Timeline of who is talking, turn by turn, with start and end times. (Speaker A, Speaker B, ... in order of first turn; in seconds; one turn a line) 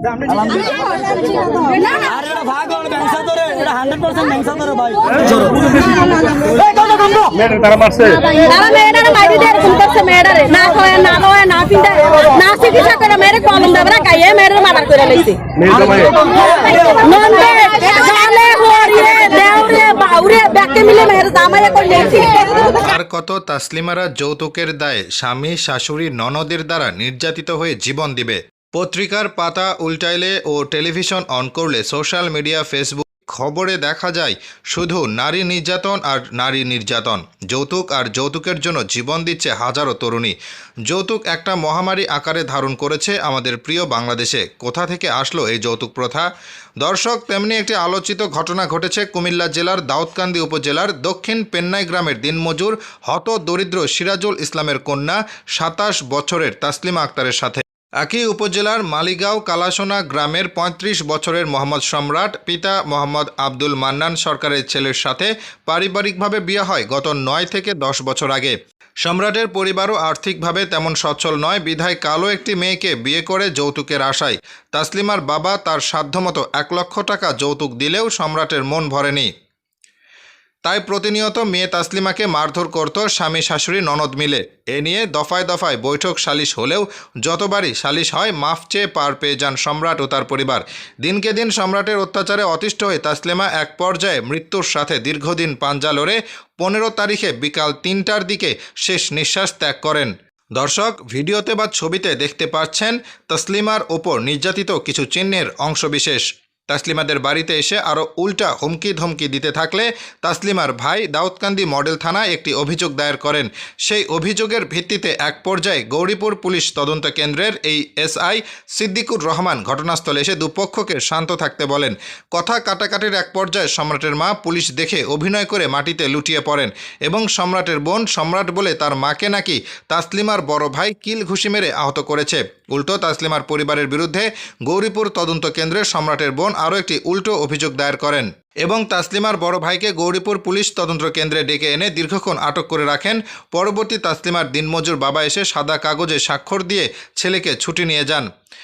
Speaker A: 0.6-2.2
Speaker B: 2.3-4.8
Speaker C: 5.2-6.1
Speaker C: 7.3-8.4
Speaker A: 8.4-22.9
Speaker C: 15.6-16.2
Speaker D: 22.9-46.3
Speaker D: 46.8-79.3
Speaker D: 80.6-148.3